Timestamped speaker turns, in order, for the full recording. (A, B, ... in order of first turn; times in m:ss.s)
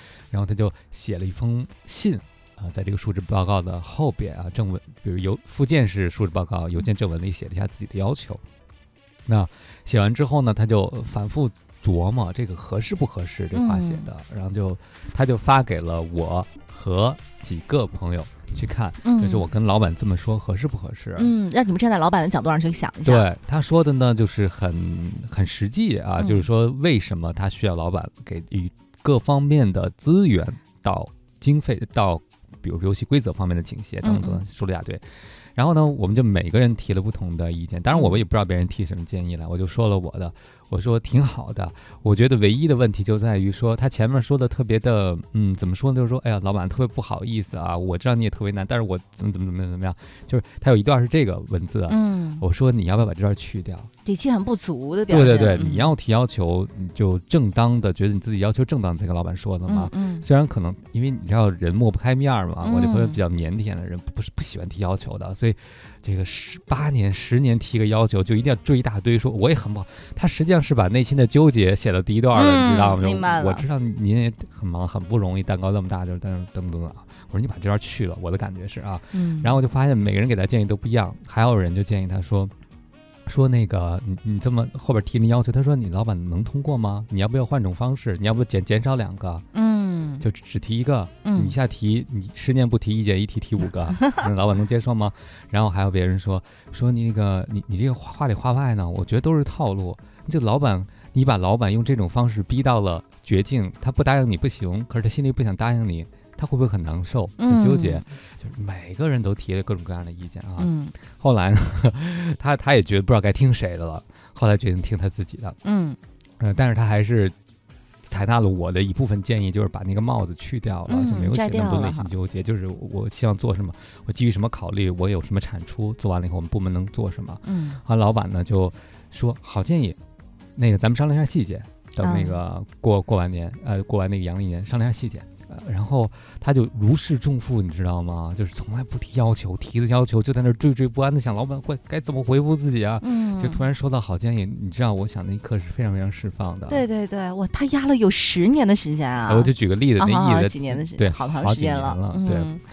0:00.3-0:08.4 A
0:09.3-0:21.3 A
0:13.5-0:14.1 B
0:19.0-0:19.5 B
0:21.2-0:23.2 B
0:23.0-0:35.0 A
0:26.2-0:26.5 B
0:34.0-0:34.4 B
0:35.6-0:53.9 A
0:37.9-0:38.2 B
0:51.9-0:52.4 B
0:54.0-0:55.9 B
0:55.1-1:22.5 A
0:59.7-1:00.2 B
1:02.6-1:03.2 B
1:12.3-1:13.7 B
1:19.1-1:19.5 B
1:23.2-1:29.4 A
1:29.5-1:30.2 B
1:30.2-1:55.6 A
1:31.2-1:31.5 B
1:47.4-1:48.0 B
1:50.6-1:50.9 B
1:55.6-1:56.0 B
1:56.4-1:57.3 A
1:58.0-2:10.0 A
2:00.9-2:02.1 B
2:07.4-2:07.8 B
2:10.6-2:26.8 A
2:12.0-2:12.4 B
2:23.0-2:23.6 B
2:26.7-2:32.6 B
2:29.3-2:32.5 A